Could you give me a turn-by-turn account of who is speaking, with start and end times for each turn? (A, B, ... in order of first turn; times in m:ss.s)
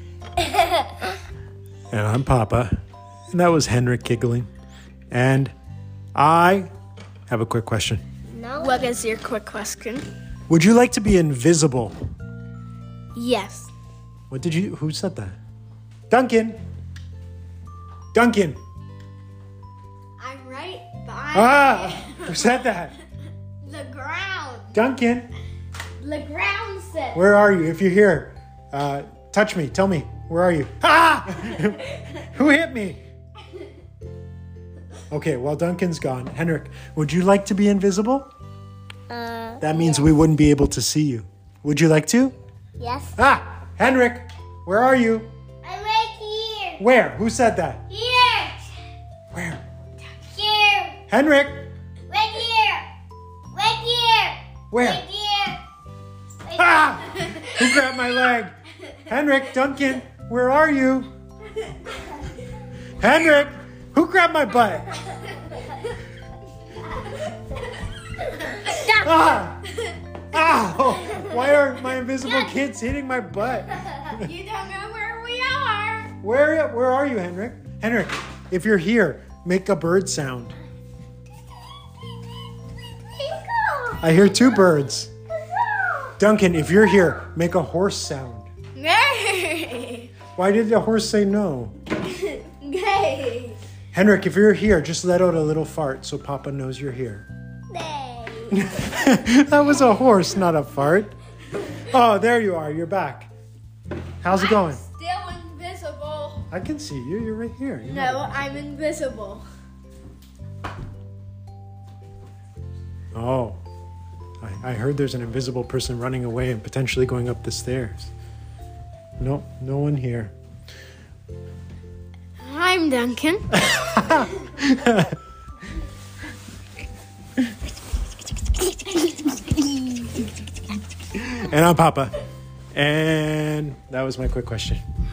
0:01.9-0:02.7 A
0:03.3-0:04.5 A
0:05.1-0:05.5 A
0:06.1-0:06.7 A
0:07.3-0:08.0 A
0:08.3-0:08.9 B
0:08.6-0:10.0 C
0:10.5-0:11.9 A
0:13.1-0:13.7 C
0:14.3-0:15.4 A
0:16.1-0:16.6 A
0:18.1-0:18.6 A
0:20.2-0:22.5 C
0:21.3-0:23.0 A
0:23.6-0:24.8 C
0:24.7-0:25.3 A
0:26.0-0:27.2 C
0:27.1-0:33.0 A
0:35.1-0:38.3 A
0:39.1-0:40.1 B
0:39.6-0:42.3 A
0:42.8-0:43.2 B
0:43.2-0:45.3 A
0:45.6-0:46.8 B
0:46.8-0:47.8 A
0:47.9-0:48.6 B
0:49.3-0:49.6 A
0:50.3-0:51.0 B
0:51.1-0:51.6 A
0:52.1-0:52.9 B
0:53.5-0:55.6 B
0:54.7-0:55.0 A
0:56.4-0:57.0 B
0:56.6-0:58.5 A
0:59.0-1:01.1 A
1:03.0-1:04.9 A
1:08.8-1:09.6 A
1:10.3-1:14.3 A
1:14.1-1:16.1 C
1:16.2-1:20.6 A
1:23.2-1:24.0 B
1:24.0-1:25.1 A
1:26.2-1:28.5 A
1:28.7-1:30.1 C
1:30.3-1:31.7 A
1:32.1-1:33.6 C
1:33.9-1:37.2 A
1:37.7-1:38.6 B
1:38.5-1:41.1 A
1:41.8-1:43.3 A
1:44.2-1:44.8 A
1:44.3-1:46.5 C
1:46.5-1:48.6 A
1:47.8-1:49.4 C
1:53.1-1:53.6 A
1:54.4-1:58.1 A
1:59.2-2:00.3 A
2:02.4-2:04.2 C
2:03.8-2:05.1 A
2:11.1-2:12.1 A
2:12.7-2:14.8 A